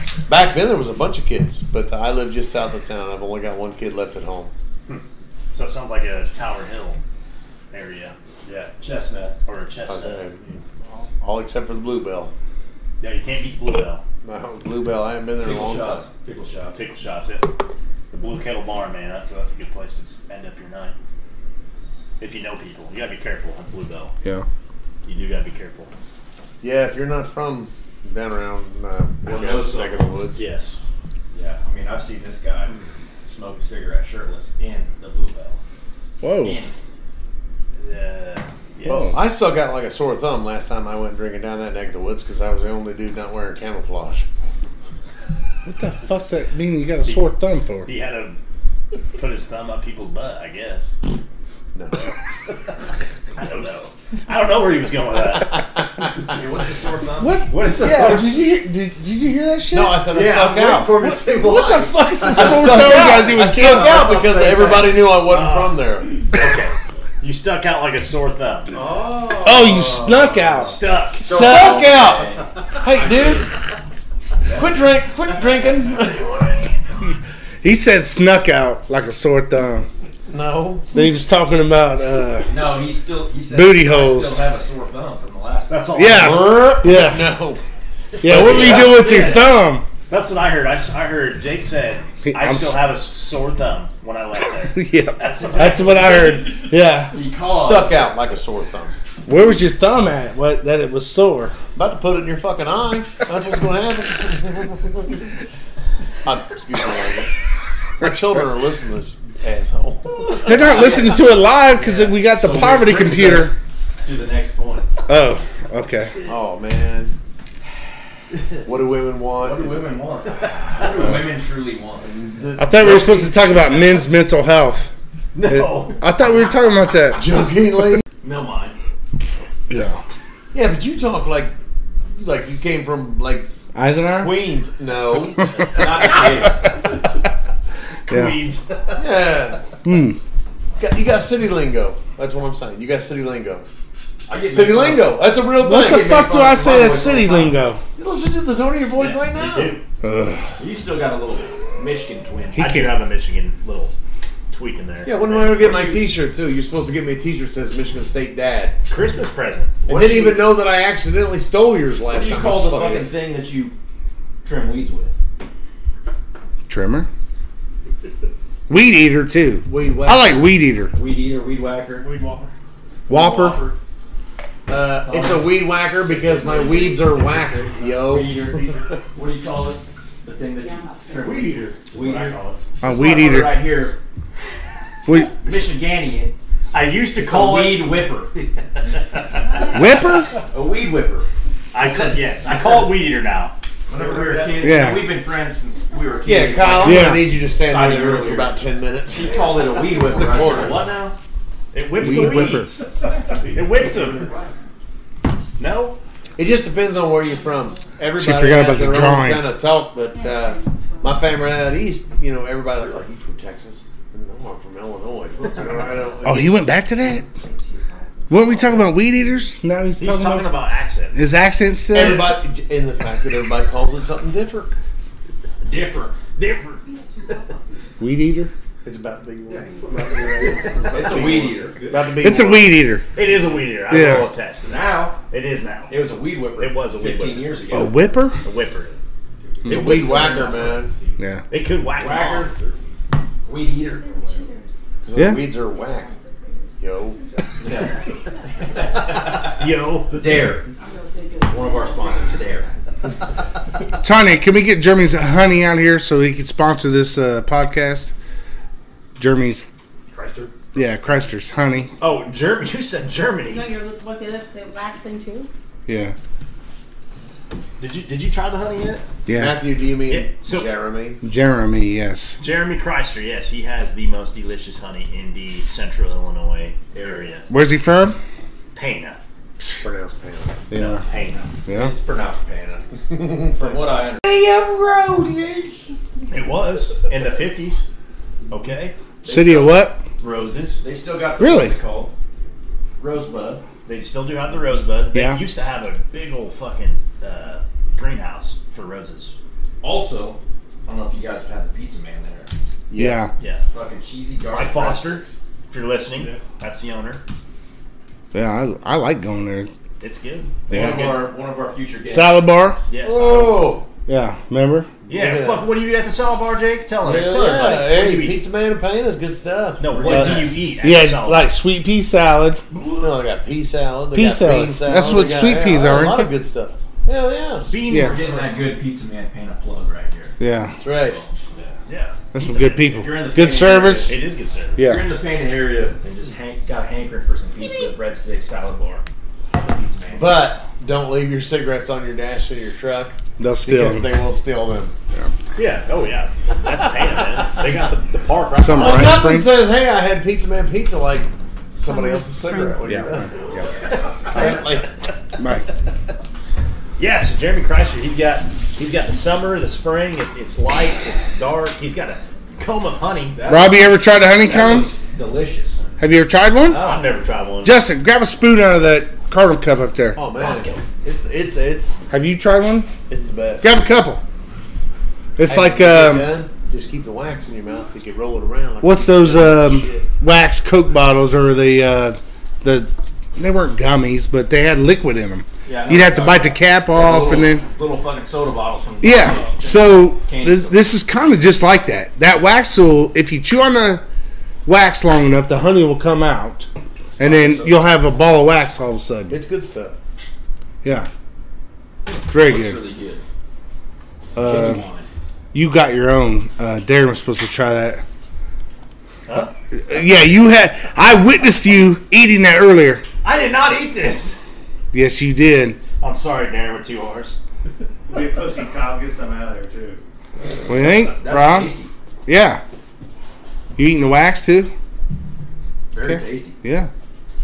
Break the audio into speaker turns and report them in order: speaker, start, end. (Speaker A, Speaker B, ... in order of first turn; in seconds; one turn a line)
Speaker A: 0.3-4.5
Speaker B: 4.9-7.0
Speaker B: 7.7-8.1
Speaker C: 8.4-9.3
Speaker B: 9.4-10.3
Speaker A: 9.9-10.6
Speaker A: 11.2-12.3
Speaker B: 13.0-14.0
Speaker A: 14.2-16.1
Speaker C: 15.4-16.8
Speaker B: 16.7-17.5
Speaker B: 18.1-20.9
Speaker B: 22.2-24.1
Speaker B: 25.0-25.9
Speaker A: 26.6-30.4
Speaker C: 29.2-30.1
Speaker B: 30.3-30.8
Speaker C: 31.3-35.6
Speaker D: 36.2-36.6
Speaker C: 36.4-36.7
Speaker B: 37.8-39.1
Speaker D: 38.8-39.2
Speaker A: 38.9-44.2
Speaker D: 45.6-47.9
Speaker B: 47.8-48.4
Speaker B: 49.1-50.9
Speaker A: 51.7-52.0
Speaker B: 53.4-55.7
Speaker C: 56.3-57.5
Speaker D: 57.2-60.1
Speaker B: 57.5-58.4
Speaker A: 59.7-61.0
Speaker E: 60.1-63.4
Speaker D: 61.0-64.4
Speaker A: 62.3-66.2
Speaker B: 65.2-68.7
Speaker E: 68.7-70.0
Speaker D: 69.4-71.8
Speaker B: 70.4-71.3
Speaker C: 71.2-73.4
Speaker A: 71.2-73.5
Speaker C: 74.4-74.8
Speaker A: 74.5-76.8
Speaker D: 77.6-79.9
Speaker A: 80.3-80.9
Speaker D: 80.9-82.5
Speaker C: 82.5-85.8
Speaker D: 83.5-84.4
Speaker B: 85.7-86.8
Speaker D: 85.9-87.3
Speaker A: 86.1-87.6
Speaker B: 88.2-89.6
Speaker D: 88.2-89.8
Speaker C: 88.5-89.2
Speaker B: 90.1-96.5
Speaker D: 92.2-92.8
Speaker D: 94.7-97.1
Speaker C: 95.6-98.1
Speaker A: 97.4-98.9
Speaker D: 99.2-101.5
Speaker A: 101.7-105.2
Speaker A: 106.2-107.3
Speaker A: 108.0-111.0
Speaker D: 110.4-113.5
Speaker C: 110.5-111.1
Speaker C: 111.8-114.9
Speaker D: 115.1-116.1
Speaker A: 116.2-117.1
Speaker A: 118.6-119.9
Speaker C: 119.4-122.1
Speaker A: 120.8-121.1
Speaker A: 122.0-123.4
Speaker D: 122.6-124.9
Speaker B: 125.3-126.0
Speaker D: 125.5-127.3
Speaker A: 127.1-128.0
Speaker C: 128.2-128.8
Speaker D: 129.7-130.0
Speaker A: 130.5-131.5
Speaker A: 132.1-133.5
Speaker D: 133.7-134.3
Speaker A: 134.2-136.1
Speaker C: 134.2-134.7
Speaker C: 135.5-136.8
Speaker B: 138.1-139.1
Speaker D: 138.1-138.4
Speaker A: 139.0-139.6
Speaker D: 139.8-140.2
Speaker A: 140.8-143.7
Speaker C: 144.3-147.6
Speaker A: 144.5-146.2
Speaker D: 145.6-147.8
Speaker A: 148.0-149.8
Speaker B: 149.0-149.8
Speaker D: 150.0-150.5
Speaker C: 150.6-152.7
Speaker D: 152.6-152.9
Speaker B: 152.6-153.9
Speaker B: 154.5-156.0
Speaker A: 155.0-158.8
Speaker B: 158.9-159.8
Speaker C: 159.8-160.6
Speaker A: 159.8-163.1
Speaker C: 162.1-163.7
Speaker C: 164.4-165.1
Speaker D: 166.7-167.1
Speaker D: 168.7-170.9
Speaker A: 169.7-170.5
Speaker C: 170.9-172.1
Speaker B: 172.1-172.5
Speaker D: 173.1-173.6
Speaker C: 173.1-173.8
Speaker A: 174.7-179.0
Speaker C: 175.1-175.5
Speaker C: 176.2-184.0
Speaker F: 180.5-181.4
Speaker E: 181.2-182.6
Speaker D: 182.8-183.6
Speaker C: 185.1-186.3
Speaker B: 186.7-187.9
Speaker C: 187.2-188.5
Speaker B: 189.1-189.7
Speaker D: 189.7-190.4
Speaker C: 190.4-193.0
Speaker B: 191.7-193.5
Speaker C: 193.9-200.9
Speaker E: 193.9-194.6
Speaker D: 194.6-195.1
Speaker A: 196.2-200.8
Speaker D: 196.8-197.3
Speaker E: 199.2-200.1
Speaker B: 200.2-201.2
Speaker B: 201.7-204.3
Speaker D: 202.0-202.7
Speaker A: 202.0-202.6
Speaker E: 202.8-204.6
Speaker B: 205.6-206.0
Speaker A: 206.4-216.6
Speaker F: 207.1-208.0
Speaker D: 208.2-209.5
Speaker F: 210.0-211.4
Speaker D: 216.2-217.2
Speaker F: 217.0-219.5
Speaker D: 218.3-220.5
Speaker B: 220.0-221.2
Speaker D: 221.1-222.4
Speaker A: 221.9-224.7
Speaker B: 221.9-222.3
Speaker C: 225.6-226.2
Speaker B: 226.3-226.8
Speaker F: 226.8-228.1
Speaker D: 228.0-228.5
Speaker A: 228.8-232.8
Speaker E: 229.5-231.9
Speaker C: 230.9-231.9
Speaker D: 232.1-233.0
Speaker B: 233.1-234.7
Speaker D: 233.9-234.3
Speaker C: 234.6-235.2
Speaker B: 235.3-236.0
Speaker C: 235.9-238.1
Speaker B: 236.6-237.9
Speaker D: 237.7-238.4
Speaker B: 238.4-239.0
Speaker A: 239.7-240.9
Speaker D: 239.7-239.9
Speaker C: 239.7-241.2
Speaker B: 239.7-240.4
Speaker D: 241.2-241.4
Speaker B: 241.5-242.5
Speaker C: 241.9-242.5
Speaker E: 242.5-242.9
Speaker C: 243.4-244.5
Speaker F: 243.6-244.8
Speaker A: 245.0-246.1
Speaker D: 245.1-245.5
Speaker F: 245.4-248.8
Speaker A: 246.8-247.2
Speaker C: 247.6-248.1
Speaker C: 248.6-249.6
Speaker B: 248.8-250.2
Speaker C: 250.1-250.6
Speaker F: 250.7-253.4
Speaker C: 251.5-252.7
Speaker D: 254.0-258.1
Speaker D: 259.2-259.7
Speaker C: 260.1-260.5
Speaker D: 260.7-261.9
Speaker B: 262.0-263.7
Speaker F: 263.4-265.5
Speaker D: 265.9-266.1
Speaker B: 267.8-269.0
Speaker D: 269.3-269.6
Speaker A: 269.3-271.2
Speaker B: 270.1-270.7
Speaker D: 271.2-272.4
Speaker B: 272.4-277.4
Speaker C: 276.9-277.3
Speaker D: 277.5-278.2
Speaker B: 278.7-279.2
Speaker A: 279.8-280.6
Speaker D: 280.7-281.0
Speaker B: 280.7-281.5
Speaker D: 281.6-281.9
Speaker C: 281.7-284.3
Speaker A: 283.1-285.9
Speaker B: 286.3-287.9
Speaker B: 288.5-288.9
Speaker D: 289.2-290.1
Speaker C: 289.2-289.8
Speaker B: 290.2-290.8
Speaker C: 290.7-292.1
Speaker D: 291.4-291.8
Speaker C: 293.0-293.6
Speaker B: 293.9-299.3
Speaker D: 295.1-295.4
Speaker C: 299.8-302.5
Speaker A: 302.9-303.2
Speaker D: 302.9-303.3
Speaker B: 303.4-303.6
Speaker C: 303.7-305.3
Speaker B: 304.5-307.2
Speaker D: 308.3-309.7
Speaker B: 310.0-311.2
Speaker C: 310.7-312.5
Speaker D: 310.7-311.1
Speaker D: 312.1-312.8
Speaker B: 312.9-313.8
Speaker A: 313.0-313.9
Speaker D: 314.1-314.9
Speaker A: 315.1-315.7
Speaker B: 315.1-318.4
Speaker A: 317.0-320.3
Speaker B: 319.8-321.5
Speaker C: 319.9-320.6
Speaker D: 320.1-322.6
Speaker B: 322.7-323.0
Speaker A: 323.0-327.7
Speaker D: 324.1-326.3
Speaker B: 327.6-328.4
Speaker D: 327.8-328.1
Speaker C: 327.9-330.4
Speaker D: 330.4-330.8
Speaker A: 330.8-331.2
Speaker C: 331.2-331.7
Speaker B: 331.8-333.1
Speaker D: 332.3-334.2
Speaker C: 332.9-334.2
Speaker B: 334.1-334.8
Speaker D: 334.8-335.1
Speaker C: 334.8-340.5
Speaker A: 340.1-344.9
Speaker D: 343.4-344.2
Speaker B: 345.5-349.3
Speaker D: 348.5-349.5
Speaker A: 348.7-353.3
Speaker F: 351.9-352.9
Speaker D: 352.8-353.7
Speaker B: 353.8-354.9
Speaker A: 354.3-354.9
Speaker D: 355.4-355.7
Speaker B: 357.0-363.4
Speaker C: 363.3-365.8
Speaker D: 363.4-364.9
Speaker D: 366.0-366.9
Speaker C: 366.6-367.0
Speaker B: 366.7-367.8
Speaker D: 367.6-370.2
Speaker A: 370.1-372.0
Speaker B: 370.4-370.8
Speaker D: 372.1-372.9
Speaker A: 373.1-373.8
Speaker D: 373.6-374.2
Speaker D: 375.4-376.3
Speaker A: 375.5-380.1
Speaker D: 378.8-387.6
Speaker C: 385.6-390.9
Speaker D: 389.0-394.0
Speaker D: 394.6-399.4
Speaker C: 397.2-397.8
Speaker A: 399.3-399.9
Speaker D: 400.8-401.1
Speaker C: 402.1-403.2
Speaker D: 402.3-402.8
Speaker D: 404.3-404.8
Speaker C: 404.4-405.1
Speaker D: 405.5-408.0
Speaker B: 409.3-409.5
Speaker D: 409.7-413.0
Speaker B: 413.2-414.4
Speaker D: 414.9-415.8
Speaker B: 416.0-417.4
Speaker E: 418.1-420.0
Speaker D: 420.7-421.7
Speaker C: 420.7-421.9
Speaker D: 422.3-422.6
Speaker D: 423.8-424.7
Speaker C: 425.9-426.6
Speaker D: 426.0-426.9